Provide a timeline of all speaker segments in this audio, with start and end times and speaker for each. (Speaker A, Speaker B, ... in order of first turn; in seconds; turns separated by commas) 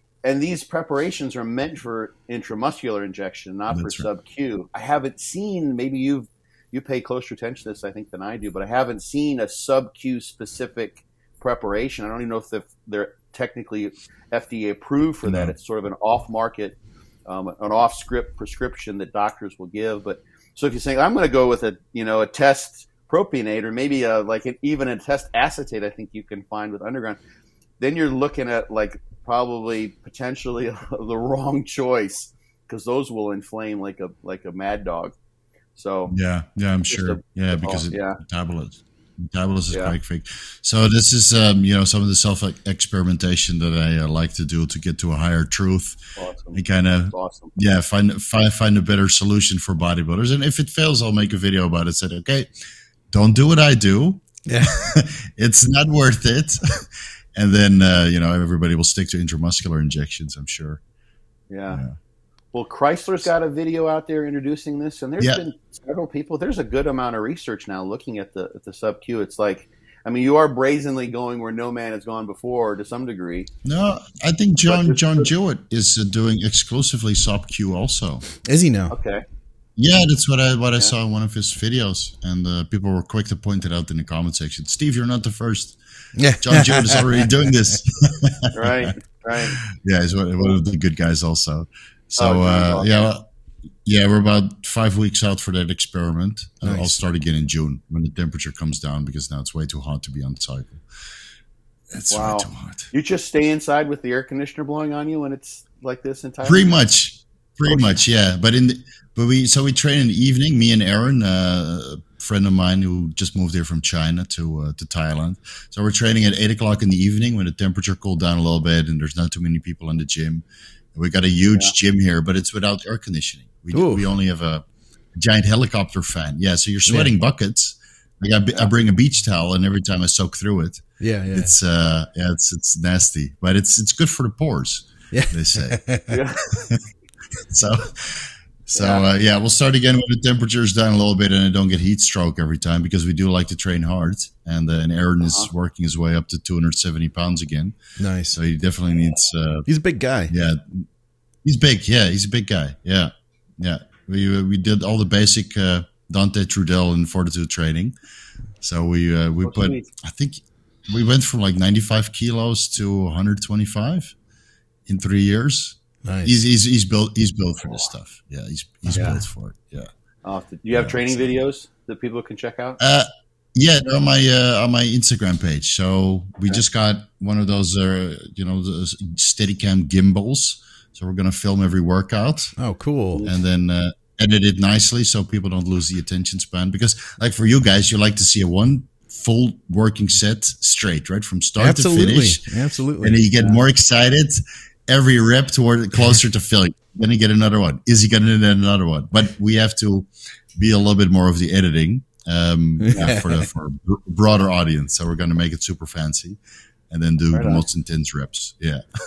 Speaker A: 0.2-27.2, Speaker B: 3.7-4.1, Speaker B: 15.2-15.5, Speaker A: 27.8-35.1, Speaker A: 35.8-36.1, Speaker B: 36.1-46.0, Speaker A: 36.9-38.2, Speaker A: 46.2-46.6, Speaker B: 46.5-52.5, Speaker A: 47.1-47.5, Speaker B: 53.1-56.8, Speaker C: 54.5-54.7, Speaker B: 57.4-60.8, Speaker A: 61.5-61.8, Speaker B: 61.7-62.0, Speaker A: 62.5-73.5, Speaker B: 73.6-78.2, Speaker A: 74.7-75.3, Speaker C: 78.4-78.9, Speaker A: 78.9-79.2, Speaker B: 79.8-85.8, Speaker C: 86.2-87.3, Speaker B: 86.4-88.9, Speaker A: 88.5-89.6, Speaker B: 89.5-93.2, Speaker A: 92.2-92.9, Speaker B: 93.8-100.8, Speaker C: 96.6-97.0, Speaker B: 101.9-102.9, Speaker A: 102.1-106.7, Speaker B: 106.4-124.6, Speaker A: 107.7-108.0, Speaker C: 123.7-124.1, Speaker B: 125.2-135.8, Speaker C: 126.9-127.1, Speaker C: 131.0-131.5, Speaker C: 135.1-136.2, Speaker A: 136.1-136.4, Speaker B: 136.5-136.8, Speaker B: 137.5-147.7, Speaker A: 138.8-139.0, Speaker A: 145.2-145.5, Speaker C: 148.0-148.4, Speaker B: 148.3-149.7, Speaker C: 149.7-150.3, Speaker B: 150.3-150.9, Speaker B: 151.4-157.9, Speaker B: 158.6-164.1, Speaker A: 159.4-159.8, Speaker B: 164.9-169.9, Speaker C: 166.0-166.3, Speaker A: 168.9-169.2, Speaker A: 170.2-172.8, Speaker B: 170.7-171.3, Speaker B: 172.8-182.5, Speaker C: 182.6-183.2, Speaker B: 183.2-192.4, Speaker C: 191.6-193.6, Speaker B: 193.0-206.4, Speaker C: 202.8-203.4, Speaker B: 206.9-208.8, Speaker A: 207.3-207.6